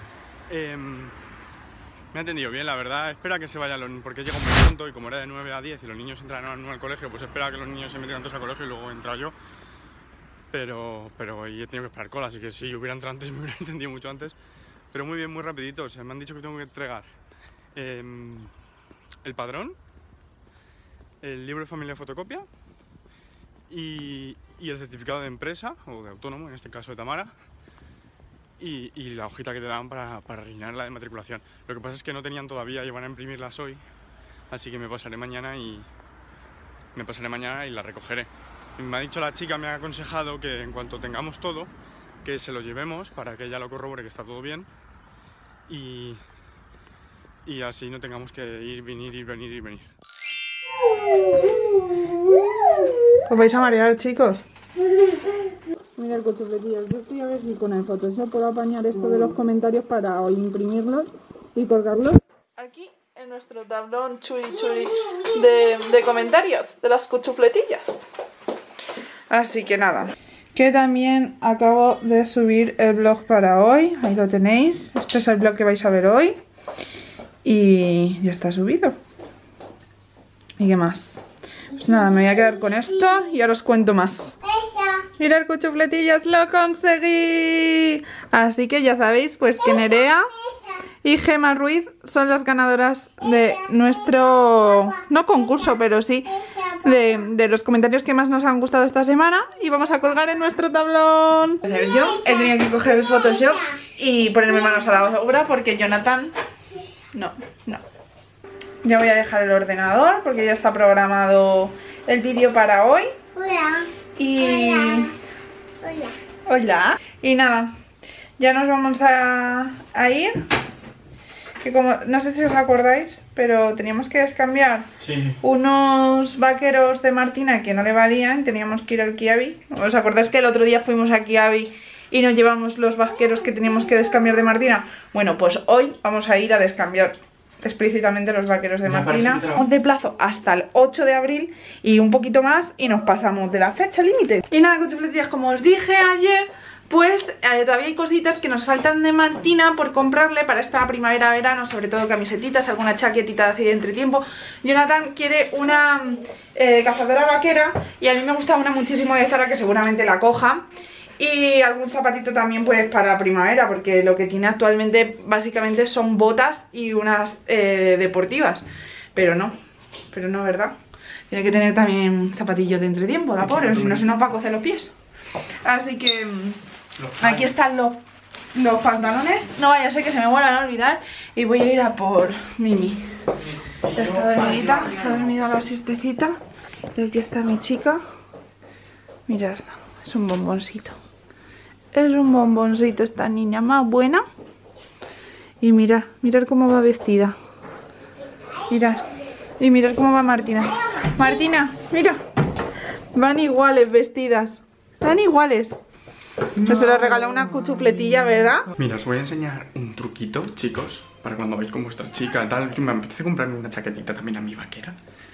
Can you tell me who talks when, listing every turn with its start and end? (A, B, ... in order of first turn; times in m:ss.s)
0:00.5-0:01.2 A
0:02.1-0:09.3 A
0:10.5-0:14.4 A
0:14.9-0:17.1 A
0:17.7-0:18.5 A
0:19.2-0:19.8 A
0:21.2-0:22.4 A
0:23.7-0:27.3 A
0:28.6-0:33.8 A
0:34.5-0:35.9 A
0:36.9-0:41.7 A
0:42.2-0:44.7 A
0:45.7-0:46.2 A
0:47.4-0:49.9 A
0:53.2-0:54.4 B
0:56.0-1:08.1 B
1:09.3-1:16.4 B
1:17.4-1:19.0 B
1:20.6-1:21.2 B
1:21.8-1:24.4 B
1:24.4-1:25.1 C
1:25.2-1:30.3 B
1:31.0-1:46.3 B
1:36.4-1:36.9 C
1:41.9-1:42.7 C
1:47.1-1:47.8 B
1:48.8-1:53.1 B
1:53.3-1:53.9 C
1:54.2-1:55.1 B
1:54.4-1:55.1 C
1:55.8-1:56.1 C
1:56.4-1:57.7 B
1:58.4-2:00.4 B
2:01.6-2:04.9 B
2:05.0-2:05.4 A
2:05.4-2:40.6 B
2:18.8-2:19.6 A
2:41.2-2:49.6 B
2:50.1-2:50.8 B
2:51.3-2:54.9 B
2:53.4-2:54.0 A
2:55.6-2:56.6 B
2:57.0-2:57.5 A
2:57.2-2:58.0 B
2:58.5-3:03.1 B
3:03.4-3:05.5 A
3:03.9-3:06.4 B
3:06.9-3:08.0 B
3:09.3-3:11.0 B
3:11.9-3:14.2 B
3:15.6-3:17.3 B
3:18.7-3:19.0 B
3:19.6-3:22.2 B
3:23.1-3:25.8 B
3:26.6-3:28.7 B
3:28.7-3:35.0 A